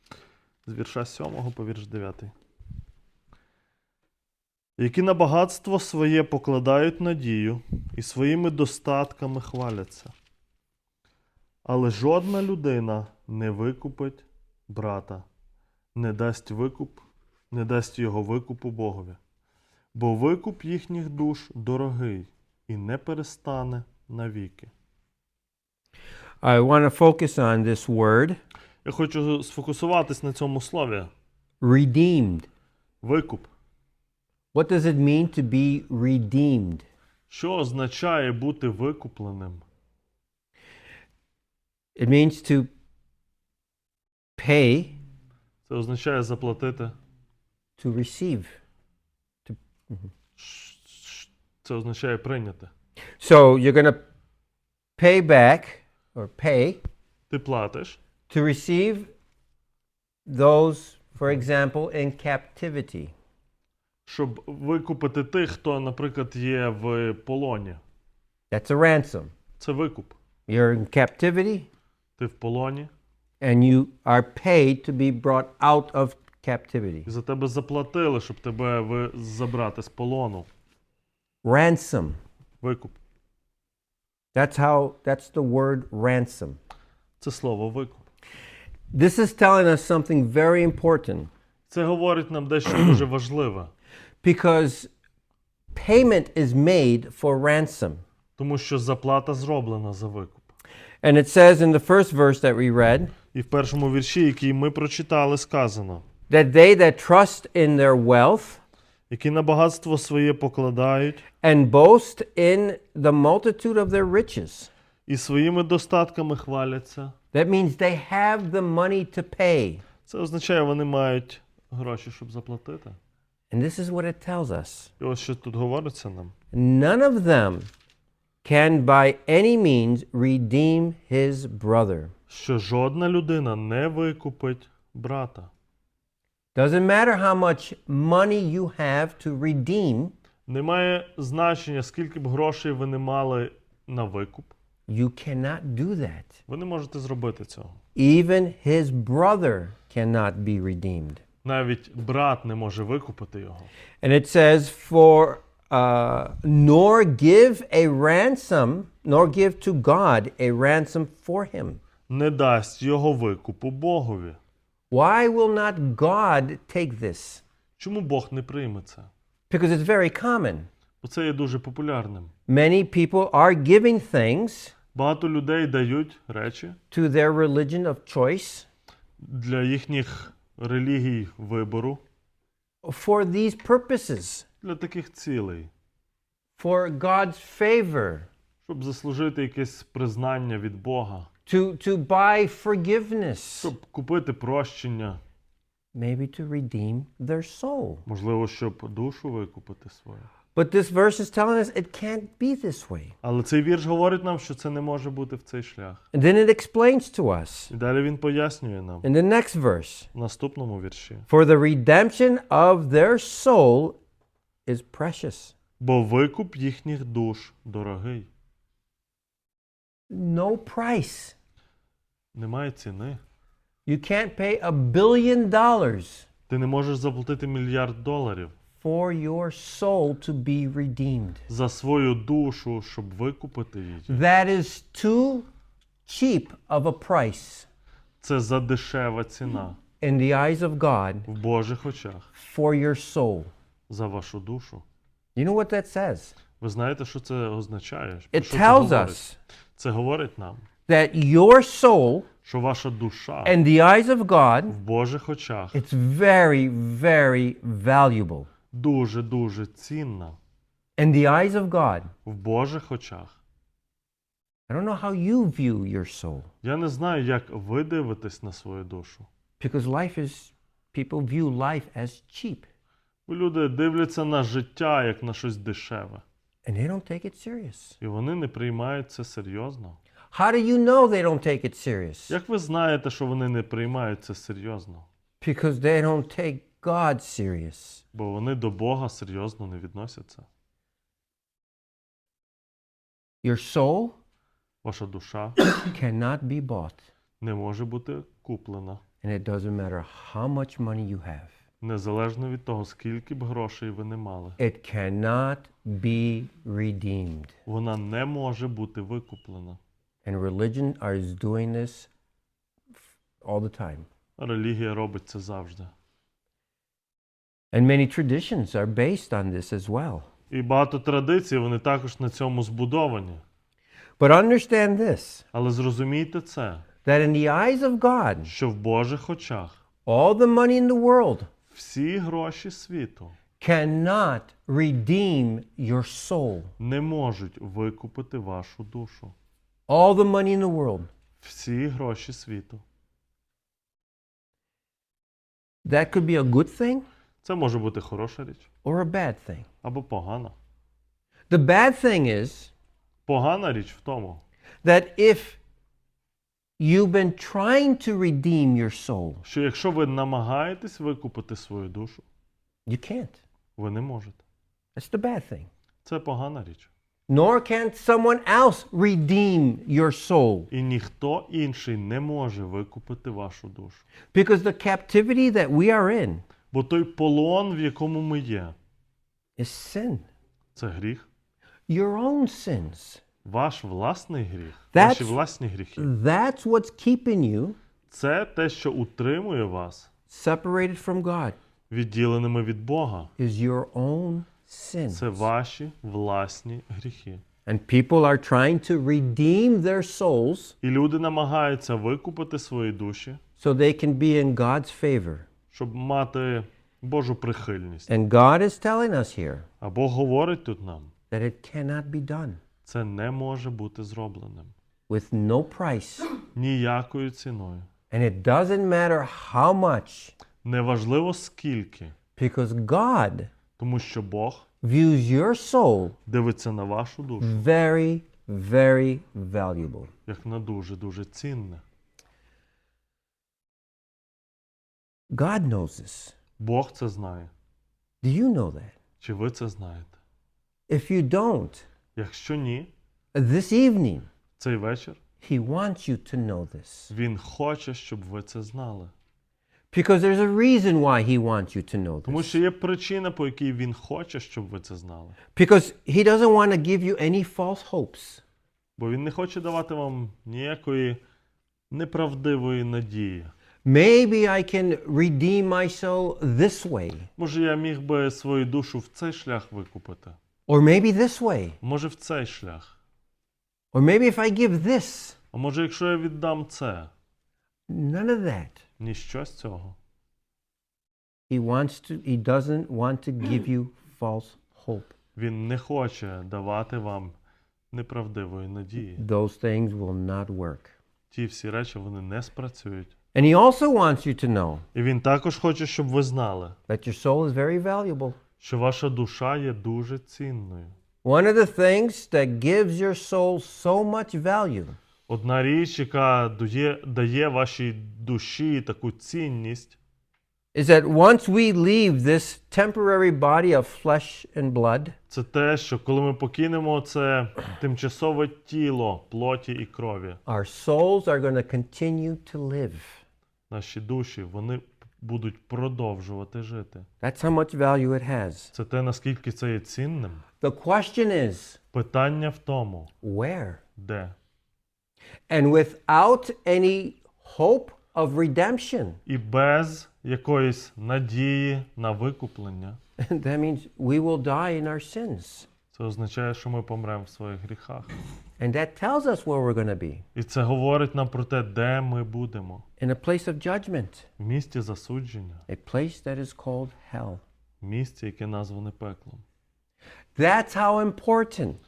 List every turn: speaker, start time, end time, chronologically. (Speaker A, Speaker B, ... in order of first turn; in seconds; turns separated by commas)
Speaker A: 0.7-2.3, Speaker A: 4.8-10.1, Speaker A: 11.7-15.2, Speaker A: 15.9-19.2, Speaker A: 19.9-24.7, Speaker B: 26.4-28.4, Speaker A: 28.8-31.1, Speaker B: 31.6-32.5, Speaker A: 33.0-33.5, Speaker B: 34.5-36.9, Speaker A: 37.3-39.6, Speaker B: 42.0-42.7, Speaker B: 44.4-45.0, Speaker A: 45.6-46.9, Speaker B: 47.8-48.6, Speaker B: 49.4-50.1, Speaker A: 50.4-52.7, Speaker B: 53.2-54.0, Speaker B: 55.0-56.8, Speaker A: 57.3-58.0, Speaker B: 58.3-59.1, Speaker B: 60.2-63.1, Speaker A: 64.0-67.8, Speaker B: 68.5-69.3, Speaker A: 69.6-70.2, Speaker B: 70.5-71.7, Speaker A: 72.2-72.9, Speaker B: 73.4-77.1, Speaker A: 77.0-80.5, Speaker B: 81.4-82.2, Speaker A: 82.6-83.0, Speaker B: 84.3-86.6, Speaker A: 87.2-88.0, Speaker B: 88.9-91.3, Speaker A: 91.7-93.7, Speaker B: 94.2-94.9, Speaker B: 95.7-98.0, Speaker A: 98.4-100.5, Speaker B: 101.0-103.1, Speaker A: 103.3-106.0, Speaker B: 106.3-108.6, Speaker A: 109.1-111.2, Speaker B: 111.4-114.7, Speaker A: 115.1-117.1, Speaker B: 117.3-119.8, Speaker A: 120.0-123.0, Speaker B: 123.5-124.9, Speaker A: 125.0-126.3, Speaker B: 126.5-127.7, Speaker B: 128.4-132.1, Speaker A: 132.3-135.5, Speaker B: 136.5-140.1, Speaker A: 140.5-144.5, Speaker B: 144.9-146.3, Speaker A: 146.5-147.8, Speaker B: 147.9-151.2, Speaker A: 151.4-153.7, Speaker B: 154.0-161.8, Speaker A: 162.1-164.4, Speaker B: 164.9-167.4, Speaker A: 167.8-169.1, Speaker B: 169.5-170.7, Speaker A: 171.0-172.3, Speaker B: 172.5-174.7, Speaker A: 174.9-176.8, Speaker B: 176.9-178.7, Speaker A: 179.2-182.0, Speaker B: 182.8-184.4, Speaker A: 184.6-185.7, Speaker B: 186.6-188.3, Speaker A: 188.6-191.3, Speaker B: 191.4-193.7, Speaker A: 193.6-195.2, Speaker B: 195.9-198.0, Speaker A: 198.1-200.3, Speaker B: 200.5-203.1, Speaker A: 203.2-206.0, Speaker B: 206.1-207.7, Speaker A: 207.7-209.1, Speaker B: 209.0-210.1, Speaker A: 210.1-211.3, Speaker B: 211.3-214.0, Speaker B: 214.7-215.5, Speaker A: 215.8-218.3, Speaker B: 220.1-221.3, Speaker A: 222.3-223.2, Speaker B: 223.8-226.3, Speaker A: 226.5-228.5, Speaker B: 228.8-231.4, Speaker A: 231.5-234.2, Speaker B: 234.1-235.5, Speaker B: 236.1-237.7, Speaker A: 238.2-239.8, Speaker B: 240.0-241.3, Speaker A: 241.3-242.3, Speaker B: 242.3-243.5, Speaker A: 243.9-244.8, Speaker B: 245.3-246.3, Speaker A: 246.6-249.2, Speaker B: 248.3-249.4, Speaker A: 249.8-250.6, Speaker B: 250.9-252.3, Speaker A: 252.4-253.6, Speaker B: 253.4-254.8, Speaker A: 254.7-255.8, Speaker B: 255.7-258.5, Speaker A: 258.7-260.4, Speaker B: 261.0-262.1, Speaker A: 262.2-263.4, Speaker B: 264.7-266.5, Speaker A: 266.6-269.3, Speaker B: 269.6-272.7, Speaker A: 273.3-276.2, Speaker B: 276.6-278.0, Speaker A: 278.0-280.0, Speaker B: 280.3-282.4, Speaker A: 282.3-285.1, Speaker B: 285.4-288.0, Speaker A: 288.1-290.5, Speaker B: 293.4-294.1, Speaker A: 294.8-295.6, Speaker B: 295.8-297.0, Speaker A: 297.4-299.0, Speaker B: 299.2-301.5, Speaker A: 301.8-304.6, Speaker B: 304.6-307.5, Speaker A: 307.6-309.8, Speaker B: 310.2-312.1, Speaker B: 313.4-314.1, Speaker A: 314.4-315.9, Speaker B: 317.7-320.3, Speaker A: 320.5-323.4, Speaker B: 324.2-325.4, Speaker A: 325.5-326.8, Speaker B: 327.0-328.5, Speaker A: 328.4-329.8, Speaker B: 330.1-331.5, Speaker A: 331.7-333.4, Speaker B: 333.6-336.7, Speaker A: 336.8-339.3, Speaker B: 339.9-341.1, Speaker A: 341.4-342.8, Speaker B: 345.8-347.0, Speaker A: 347.4-348.7, Speaker B: 348.8-349.7, Speaker A: 349.8-350.5, Speaker B: 351.5-352.7, Speaker A: 353.2-354.4, Speaker B: 354.8-355.6, Speaker B: 356.8-359.4, Speaker A: 359.4-362.2, Speaker B: 362.9-363.4, Speaker A: 363.8-364.4, Speaker B: 364.9-365.7, Speaker A: 366.0-366.9, Speaker B: 367.3-370.7, Speaker A: 370.7-374.0, Speaker B: 374.3-376.4, Speaker A: 376.7-378.8, Speaker B: 379.6-380.2, Speaker A: 380.7-381.3, Speaker B: 381.9-383.2, Speaker A: 383.4-386.1, Speaker B: 384.9-385.4, Speaker B: 386.0-387.8, Speaker A: 388.1-390.1, Speaker B: 390.3-391.6, Speaker A: 391.9-393.3, Speaker B: 393.4-395.4, Speaker A: 395.1-397.4, Speaker B: 397.6-400.7, Speaker A: 400.8-403.4, Speaker B: 403.6-405.5, Speaker A: 405.7-408.1, Speaker B: 408.1-409.7, Speaker A: 409.8-411.1, Speaker B: 411.3-412.6, Speaker A: 412.8-414.7, Speaker B: 415.1-416.2, Speaker A: 416.5-417.9, Speaker B: 418.1-420.3, Speaker A: 420.6-422.1, Speaker B: 422.4-423.5, Speaker A: 423.8-424.6, Speaker B: 424.8-426.1, Speaker A: 426.3-427.6, Speaker B: 427.4-430.1, Speaker A: 430.3-431.8, Speaker B: 435.3-436.3, Speaker A: 436.6-437.5, Speaker B: 438.2-438.9, Speaker A: 439.2-440.2, Speaker B: 440.9-441.9, Speaker A: 442.1-442.9, Speaker B: 443.3-444.3, Speaker A: 444.6-445.2, Speaker B: 445.4-447.1, Speaker A: 447.1-449.1, Speaker B: 449.9-452.6, Speaker A: 452.2-455.4, Speaker B: 455.5-458.4, Speaker A: 459.0-461.2, Speaker A: 461.9-463.5, Speaker B: 463.8-467.3, Speaker A: 467.4-470.4, Speaker B: 470.7-471.8, Speaker A: 471.8-472.9, Speaker B: 473.9-475.4, Speaker A: 475.5-477.1, Speaker B: 477.9-478.8, Speaker A: 479.0-480.0, Speaker B: 481.5-485.1, Speaker A: 485.4-487.3, Speaker A: 487.9-489.2, Speaker B: 489.2-490.9, Speaker A: 491.3-493.1, Speaker B: 493.3-494.8, Speaker A: 494.9-496.8, Speaker B: 496.9-498.4, Speaker A: 498.6-500.9, Speaker B: 501.2-505.0, Speaker A: 505.3-510.0, Speaker B: 510.7-515.1, Speaker A: 515.3-520.4, Speaker B: 520.5-523.2, Speaker A: 523.7-527.1, Speaker B: 527.2-528.7, Speaker A: 528.7-530.4, Speaker B: 530.6-531.8, Speaker A: 531.9-533.1, Speaker B: 533.2-533.8, Speaker A: 534.0-534.3, Speaker B: 535.5-539.2, Speaker A: 539.2-543.0, Speaker B: 543.2-545.7, Speaker A: 545.9-548.1, Speaker B: 548.6-550.2, Speaker A: 550.3-552.8, Speaker B: 553.0-554.2, Speaker A: 554.4-555.6, Speaker B: 555.7-557.4, Speaker A: 557.8-559.4, Speaker B: 560.3-561.8